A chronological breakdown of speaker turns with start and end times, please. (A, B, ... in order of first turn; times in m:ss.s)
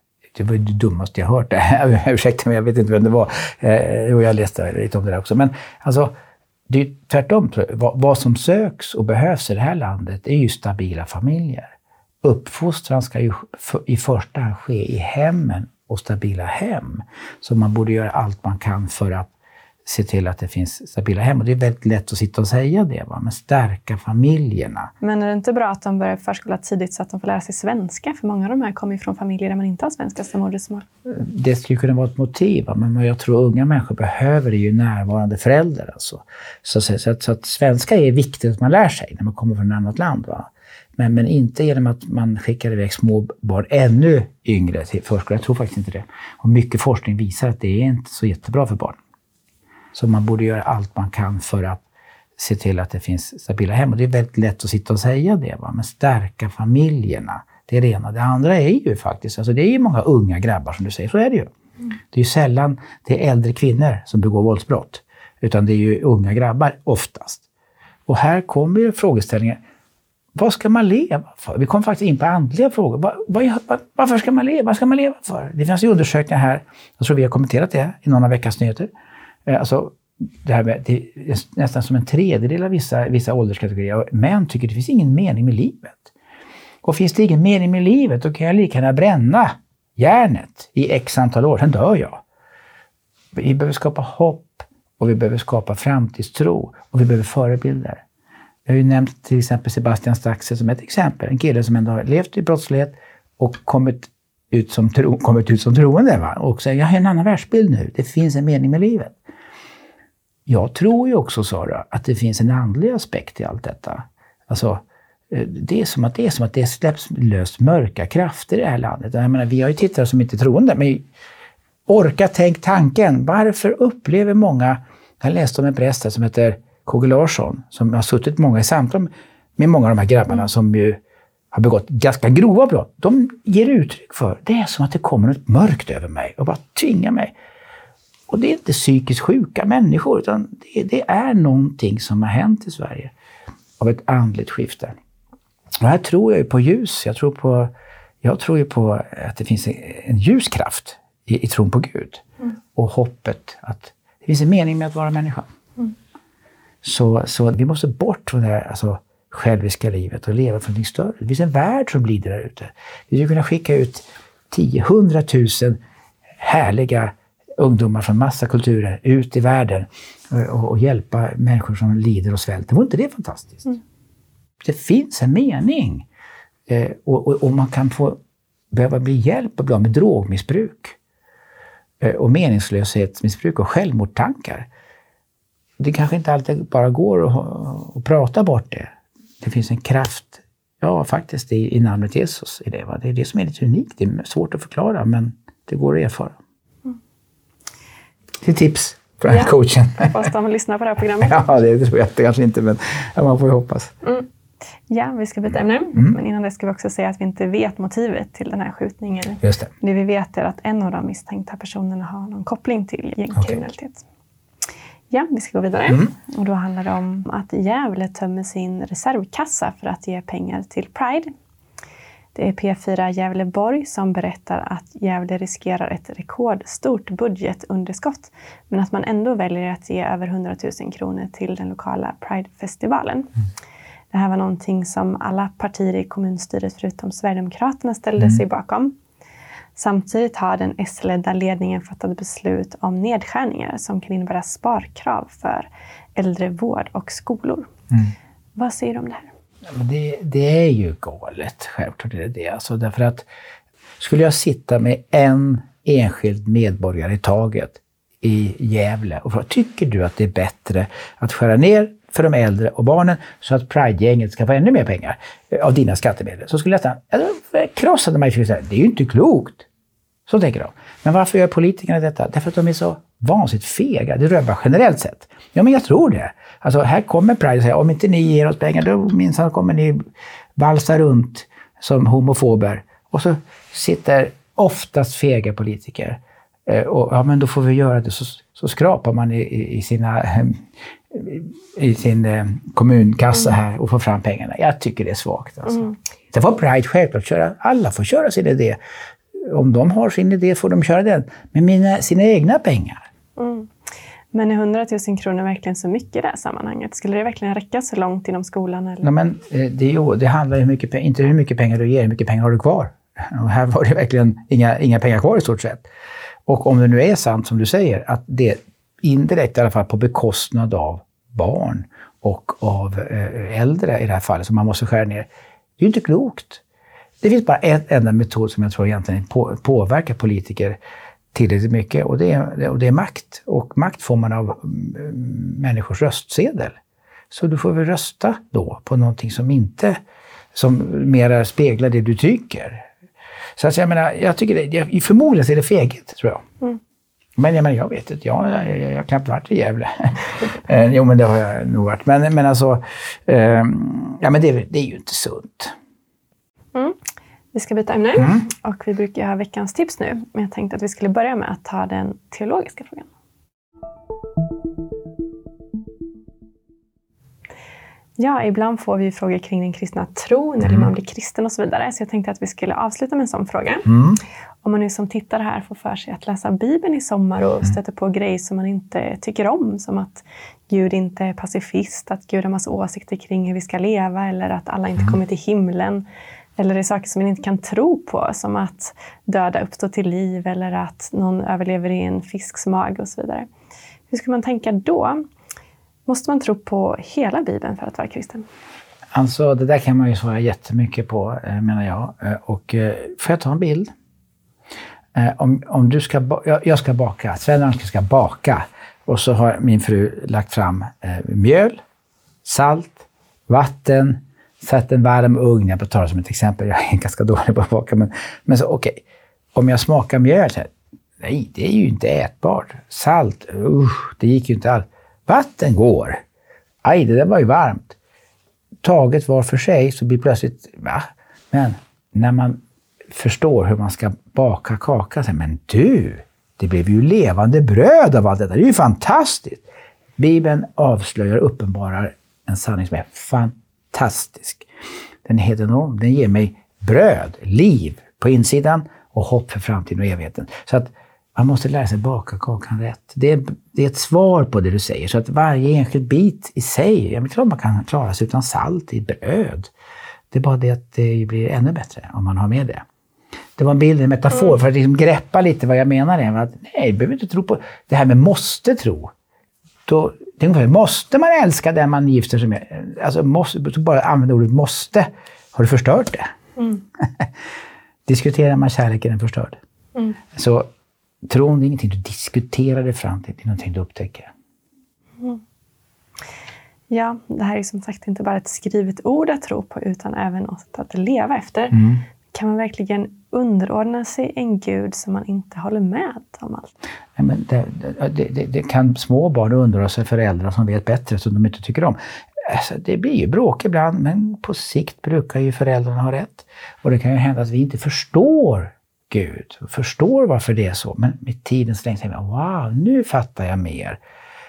0:00.3-0:06.1 A
0:06.7-0:19.3 A
0:19.8-0:24.9 A
0:25.0-0:30.8 B
0:31.1-0:49.0 A
0:49.9-0:51.8 A
0:52.4-1:01.5 A
1:02.1-1:07.4 A
1:08.1-1:09.6 A
1:10.4-1:18.9 A
1:19.5-1:26.1 A
1:26.8-1:32.2 A
1:33.4-1:38.0 A
1:38.7-1:49.2 A
1:50.5-2:01.1 A
2:01.9-2:11.0 A
2:11.5-2:17.3 A
2:18.3-2:23.1 A
2:23.8-2:25.0 A
2:25.8-2:27.7 A
2:28.2-2:32.2 A
2:32.8-2:35.5 A
2:36.8-2:45.8 A
2:46.4-2:53.8 A
2:54.6-2:56.1 A
2:56.7-2:58.2 A
2:58.7-3:01.0 A
3:02.0-3:04.7 A
3:05.8-3:16.4 A
3:18.4-3:20.1 A
3:19.3-3:21.4 B
3:21.2-3:23.9 A
3:24.9-3:34.0 B
3:29.4-3:29.7 A
3:35.1-3:41.3 B
3:42.4-3:53.3 B
3:54.1-3:59.0 B
3:59.8-4:07.7 B
4:08.6-4:09.3 B
4:09.7-4:13.3 A
4:14.0-4:29.6 A
4:30.3-4:40.0 A
4:40.6-4:58.8 A
4:55.7-4:56.0 B
4:59.4-5:03.0 A
5:03.4-5:03.7 B
5:04.3-5:09.1 B
5:09.0-5:15.9 A
5:16.5-5:25.3 A
5:25.8-5:26.6 A
5:27.2-5:30.8 A
5:31.3-5:36.8 A
5:37.3-5:40.0 A
5:40.5-5:42.9 A
5:43.6-5:46.4 A
5:47.4-5:55.8 A
5:57.5-6:03.1 B
5:58.2-5:58.4 A
6:08.2-6:13.9 B
6:13.9-6:14.2 A
6:14.6-6:26.0 B
6:26.6-6:33.5 B
6:34.1-6:35.2 B
6:36.1-6:38.5 B
6:39.1-6:43.9 A
6:45.2-6:51.8 A
6:52.4-6:59.0 A
6:59.5-7:06.2 A
7:06.8-7:08.0 A
7:08.8-7:19.6 A
7:20.2-7:24.7 A
7:25.2-7:39.7 A
7:40.3-7:42.8 A
7:43.6-7:49.1 A
7:49.9-7:56.3 A
7:56.6-7:56.8 B
7:57.0-7:57.3 A
7:58.1-7:59.6 A
8:00.3-8:00.7 A
8:01.3-8:04.3 A
8:06.9-8:16.7 B
8:11.7-8:12.0 A
8:17.2-8:34.0 A